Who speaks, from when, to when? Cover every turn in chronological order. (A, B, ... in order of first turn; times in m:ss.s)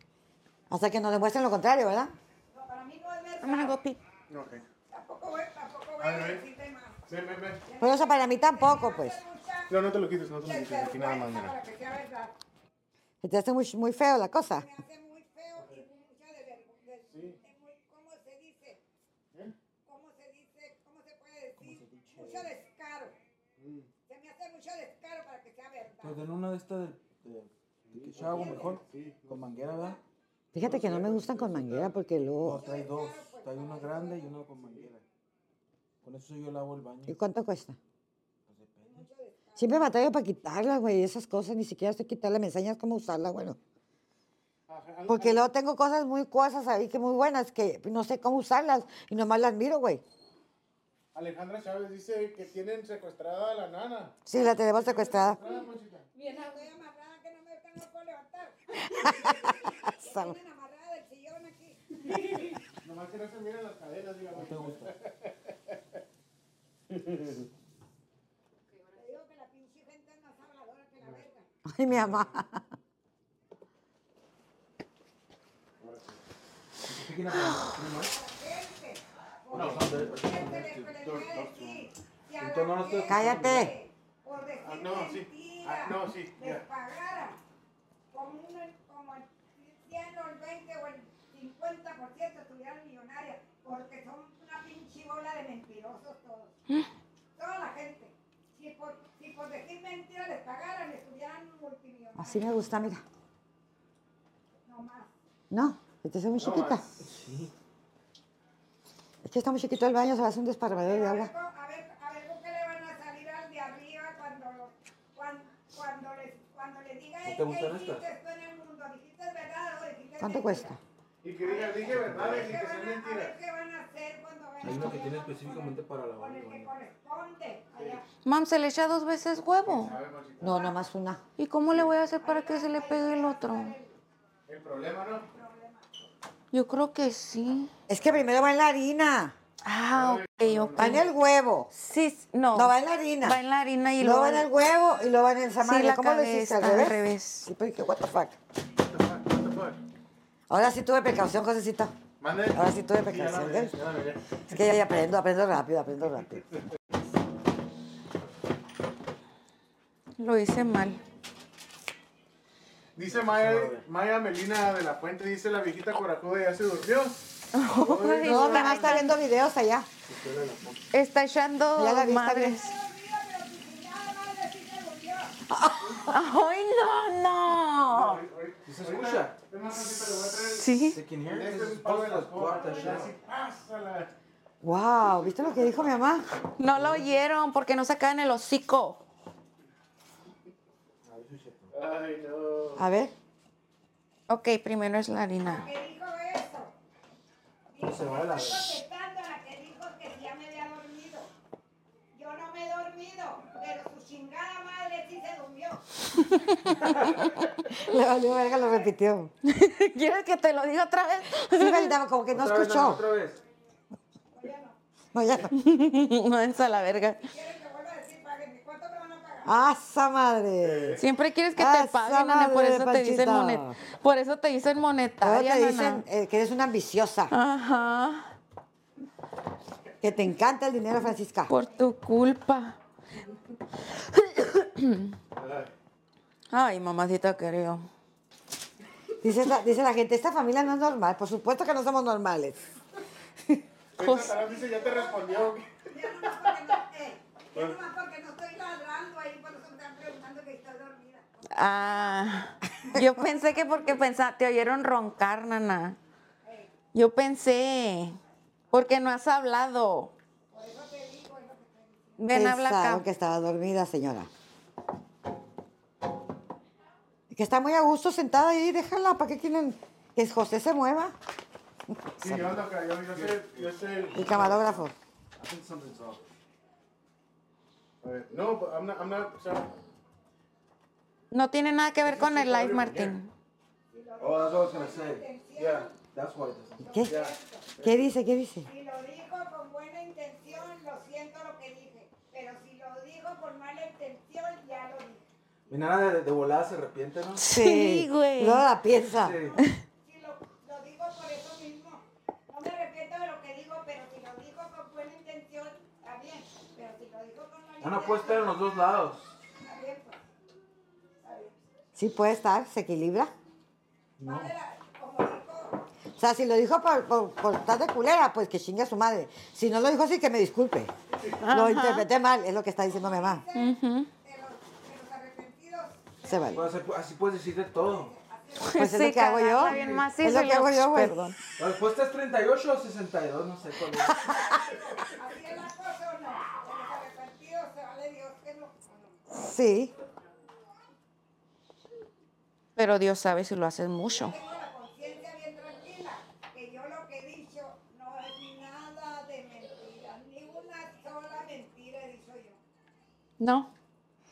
0:00.7-0:02.1 A
0:02.5-0:03.7 B
0:03.4-0:04.0 C
0:04.3-0:04.6 D
0:04.9-0:07.1 B
0:06.0-0:06.4 D
0:07.1-0:07.6 D
0:07.6-0:09.8 B
0:07.8-0:09.2 A
0:09.7-0:11.5 D
0:10.4-0:12.3 B
0:13.2-0:14.6 A
0:14.5-0:18.8 B
0:17.1-0:17.4 D
0:19.8-0:23.2 B
0:21.6-0:22.5 E
0:23.6-0:23.9 D
0:24.1-0:26.2 B
0:26.0-0:30.0 E
0:27.8-0:29.4 D
0:28.2-0:28.8 B
0:30.5-0:32.6 A
0:30.6-0:31.9 D
0:32.4-0:35.0 E
0:32.5-0:34.4 B
0:34.6-0:34.9 D
0:36.0-0:37.2 E
0:37.1-0:37.8 A
0:38.5-0:39.0 E
0:38.9-0:39.9 B
0:39.6-0:43.6 A
0:44.7-0:45.5 D
0:45.1-0:50.0 A
0:51.1-0:56.1 D
0:54.2-0:55.4 A
0:56.1-1:02.1 B
0:58.9-1:00.4 A
1:02.8-1:05.5 D
1:04.3-1:04.9 E
1:06.9-1:07.4 D
1:08.9-1:11.4 B
1:11.6-1:12.6 A
1:12.0-1:12.3 D
1:15.8-1:16.2 D
1:16.8-1:18.1 E
1:17.5-1:27.4 B
1:19.5-1:21.2 E
1:19.5-1:19.9 D
1:21.0-1:21.8 D
1:22.4-1:23.7 E
1:23.0-1:23.7 A
1:24.6-1:26.6 D
1:28.1-1:36.6 B
1:37.4-1:42.6 B
1:42.2-1:43.0 A
1:44.6-1:45.1 B
1:45.5-1:46.8 A
1:46.4-1:46.9 D
1:47.0-1:47.5 E
1:49.2-1:51.3 A
1:50.8-2:00.7 B
1:57.2-1:58.0 E
2:00.2-2:00.8 A
2:01.2-2:03.3 D
2:01.4-2:08.0 B
2:01.9-2:02.6 E
2:04.6-2:06.7 E
2:07.7-2:08.0 D
2:08.2-2:09.9 C
2:09.6-2:10.7 D
2:10.4-2:11.2 A
2:11.4-2:13.7 C
2:12.2-2:14.0 B
2:14.5-2:15.3 D
2:15.3-2:15.9 B
2:16.5-2:17.7 C
2:17.9-2:19.4 A
2:19.6-2:21.1 C
2:19.9-2:21.0 D
2:20.8-2:21.7 A
2:21.7-2:24.5 C
2:22.5-2:23.4 A
2:24.0-2:28.3 A
2:25.6-2:27.5 C
2:28.8-2:29.8 D
2:30.5-2:31.9 A
2:32.2-2:34.4 D
2:32.5-2:33.7 A
2:34.5-2:36.5 A
2:40.2-2:41.0 C
2:42.9-2:49.1 D
2:43.0-2:43.8 E
2:47.5-2:49.2 C
2:48.2-2:49.9 A
2:50.1-2:50.8 E
2:50.9-2:52.7 C
2:51.8-2:52.6 A
2:52.6-2:55.4 B
2:55.5-2:56.2 A
2:56.1-2:58.2 C
2:57.9-3:04.1 D
2:58.6-2:59.4 E
3:00.4-3:01.0 C
3:00.9-3:03.1 E
3:02.6-3:03.0 B
3:04.6-3:06.3 A
3:06.6-3:09.0 C
3:06.8-3:07.0 E
3:11.0-3:11.7 E
3:11.7-3:12.8 D
3:12.8-3:13.1 A
3:14.3-3:15.7 C
3:15.4-3:16.7 B
3:17.7-3:21.3 B
3:17.8-3:18.8 E
3:22.1-3:25.8 B
3:26.3-3:26.7 C
3:26.4-3:28.9 B
3:27.7-3:29.3 A
3:29.4-3:32.0 C
3:31.5-3:33.0 A
3:32.3-3:33.4 E
3:34.3-3:34.8 B
3:35.1-3:35.5 A
3:35.5-3:37.3 C
3:36.6-3:39.5 B
3:39.4-3:41.0 A
3:40.6-3:41.0 D
3:41.0-3:46.0 C
3:41.6-3:43.8 A
3:45.2-3:47.3 A
3:47.3-3:48.3 C
3:50.0-3:51.5 A
3:51.5-3:52.8 C
3:53.9-3:55.1 C
3:55.4-3:55.7 D
3:56.5-3:57.9 C
3:59.2-4:02.7 A
4:04.0-4:05.8 D
4:04.0-4:04.4 C
4:04.4-4:12.3 B
4:07.5-4:07.8 D
4:11.5-4:16.0 C
4:16.4-4:16.7 B
4:16.9-4:18.2 C
4:18.7-4:20.1 C
4:20.5-4:22.3 B
4:22.2-4:23.0 C
4:22.3-4:24.3 A
4:27.3-4:31.1 A
4:31.9-4:32.5 A
4:32.2-4:34.8 D
4:33.1-4:33.7 E
4:34.1-4:34.9 A
4:35.4-4:36.2 E
4:38.0-4:39.7 D
4:41.3-4:43.3 C
4:42.0-4:43.1 D
4:43.9-4:45.9 B
4:44.2-4:45.3 E
4:45.6-4:45.9 D
4:45.9-4:47.1 E
4:46.8-4:47.7 B
4:47.1-4:48.1 D
4:47.8-4:48.7 A
4:48.7-4:55.2 B
4:55.7-4:57.4 E
4:57.4-4:58.6 C
4:57.5-4:59.4 A
4:58.9-4:59.6 E
4:59.5-5:08.9 B
5:07.8-5:09.3 E
5:09.6-5:10.2 B
5:11.2-5:11.5 B
5:11.9-5:13.3 A
5:14.2-5:14.5 E
5:14.2-5:15.8 B
5:16.2-5:20.9 A
5:21.4-5:22.1 C
5:21.5-5:23.4 A
5:22.9-5:26.9 B
5:23.5-5:24.1 C
5:26.2-5:26.6 A
5:26.5-5:28.1 E
5:27.7-5:29.0 B
5:28.6-5:31.3 C
5:28.6-5:31.3 A
5:29.6-5:30.1 E
5:31.6-5:34.5 E
5:34.0-5:39.2 B
5:39.3-5:39.9 A
5:42.8-5:44.4 C
5:44.1-5:52.6 B
5:53.4-5:53.7 C